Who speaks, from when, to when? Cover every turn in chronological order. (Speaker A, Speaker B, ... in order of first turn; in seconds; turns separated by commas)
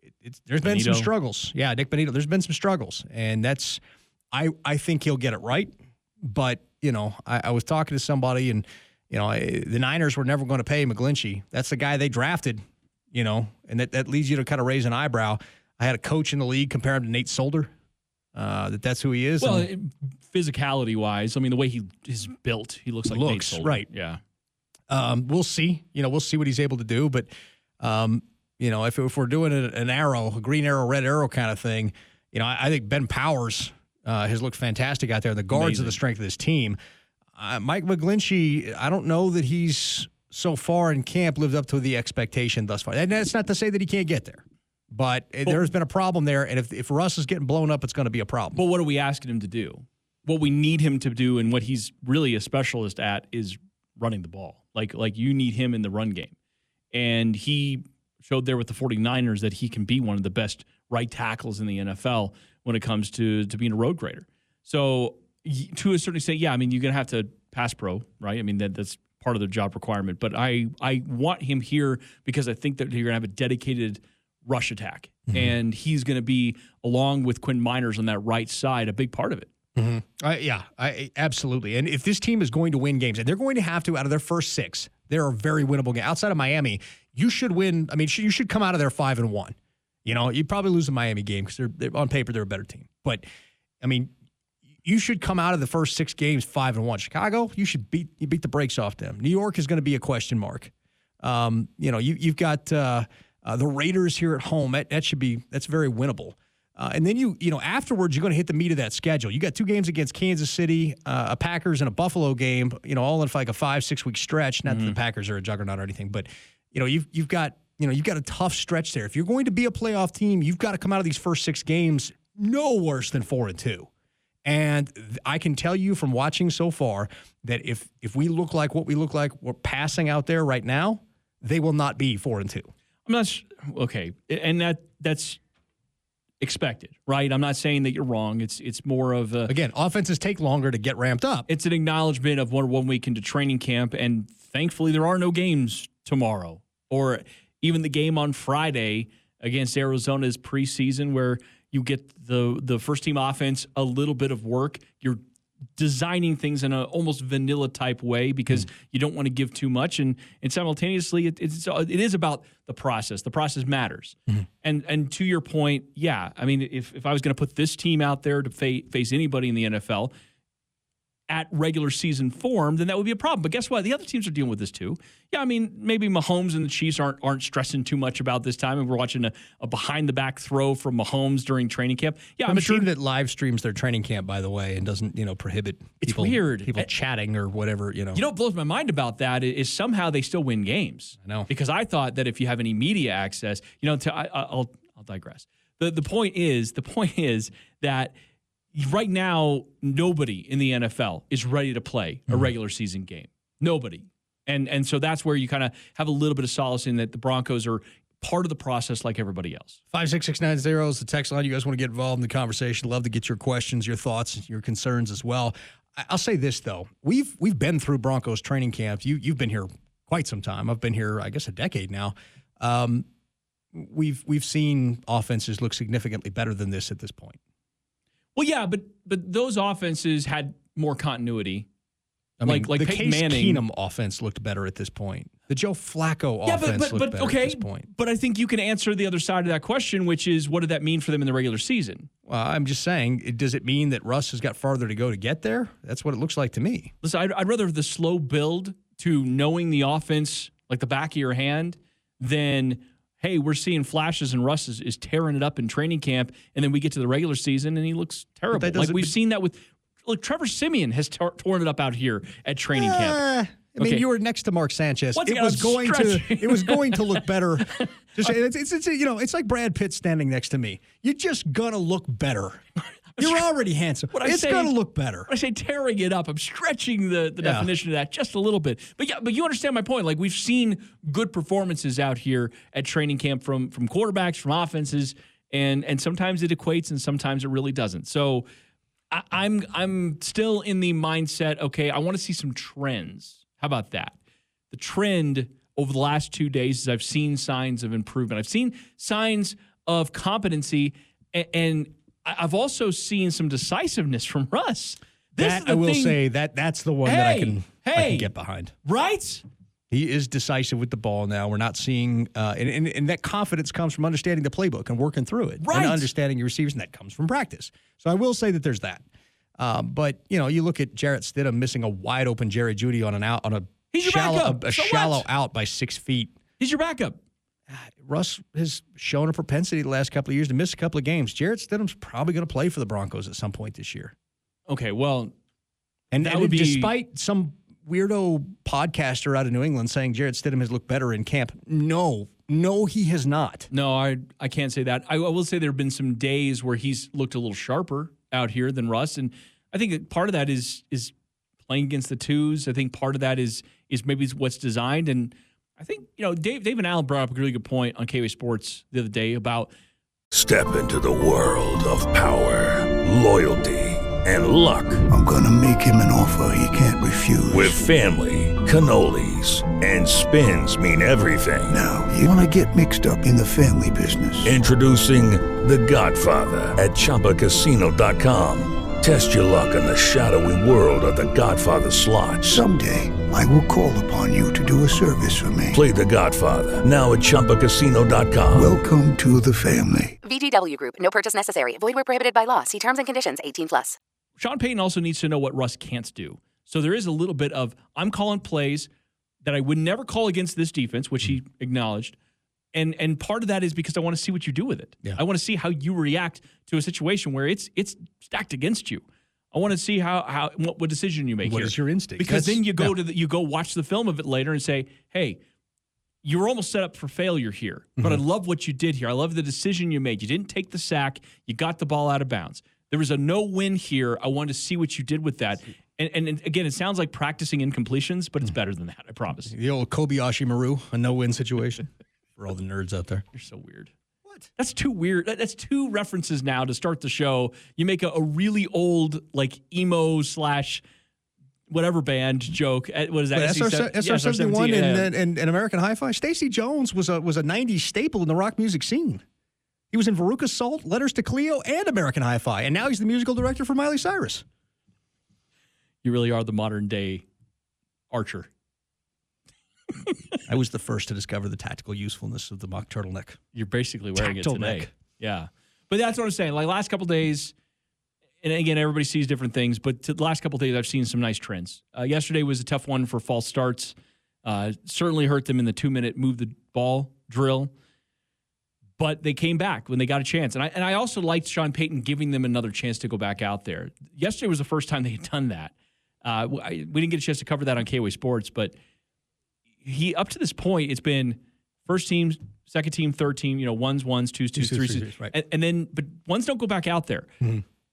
Speaker A: 0.2-3.8, Speaker B: 0.6-1.1, Speaker A: 4.3-17.7, Speaker A: 18.3-19.7, Speaker B: 19.4-24.2, Speaker A: 23.1-23.9, Speaker A: 24.9-27.3, Speaker A: 27.8-36.8, Speaker B: 35.5-36.0, Speaker A: 37.4-48.6, Speaker B: 48.5-56.3, Speaker B: 56.9-79.5, Speaker A: 79.8-93.2, Speaker A: 93.8-94.1, Speaker A: 94.8-123.9, Speaker B: 114.7-115.0, Speaker A: 124.4-132.7, Speaker B: 133.1-135.4, Speaker B: 136.4-139.5, Speaker A: 139.5-141.5, Speaker B: 141.5-155.2, Speaker B: 155.8-170.1, Speaker B: 171.3-182.9, Speaker A: 182.4-188.2, Speaker B: 186.0-186.9, Speaker B: 188.1-198.1, Speaker A: 191.2-191.5, Speaker B: 198.7-209.8, Speaker A: 209.9-223.1, Speaker A: 223.7-227.4, Speaker B: 228.3-231.7, Speaker A: 232.4-237.9, Speaker B: 232.4-233.6, Speaker B: 236.4-242.1, Speaker A: 242.2-246.9, Speaker B: 247.0-264.0, Speaker A: 258.5-259.1, Speaker A: 262.7-272.6, Speaker B: 265.1-268.3, Speaker B: 273.1-273.4, Speaker A: 273.2-275.3, Speaker B: 274.1-274.7, Speaker B: 275.3-288.4, Speaker A: 277.4-277.7, Speaker B: 289.1-294.2, Speaker B: 294.7-306.2, Speaker A: 305.4-308.7, Speaker B: 307.0-308.3, Speaker B: 308.8-309.4, Speaker A: 309.9-319.0, Speaker B: 315.6-316.1, Speaker A: 319.6-326.4, Speaker B: 323.9-325.2, Speaker B: 326.6-327.2, Speaker A: 327.7-334.1, Speaker B: 334.7-335.3, Speaker A: 336.1-343.7, Speaker B: 336.2-336.9, Speaker B: 343.7-351.1, Speaker B: 351.6-359.7, Speaker C: 360.3-365.0, Speaker D: 365.1-367.9, Speaker C: 367.5-371.8, Speaker D: 371.7-374.6, Speaker C: 374.4-382.6, Speaker D: 382.4-385.8, Speaker C: 385.7-388.7, Speaker D: 388.5-390.2, Speaker E: 390.2-394.0, Speaker B: 394.4-398.9, Speaker B: 399.4-402.1, Speaker B: 402.7-415.4, Speaker A: 411.4-412.9, Speaker B: 416.2-429.5, Speaker A: 429.4-433.2, Speaker B: 433.3-433.9, Speaker B: 434.6-440.8, Speaker B: 441.7-445.1, Speaker A: 443.3-449.2, Speaker A: 449.9-454.4, Speaker B: 456.0-457.2, Speaker B: 458.1-458.5, Speaker B: 460.0-460.4, Speaker A: 460.5-463.4, Speaker B: 463.5-467.5, Speaker A: 464.1-464.9, Speaker B: 468.4-477.7, Speaker B: 479.0-485.7, Speaker B: 486.2-488.7, Speaker B: 489.8-497.3, Speaker A: 494.5-495.3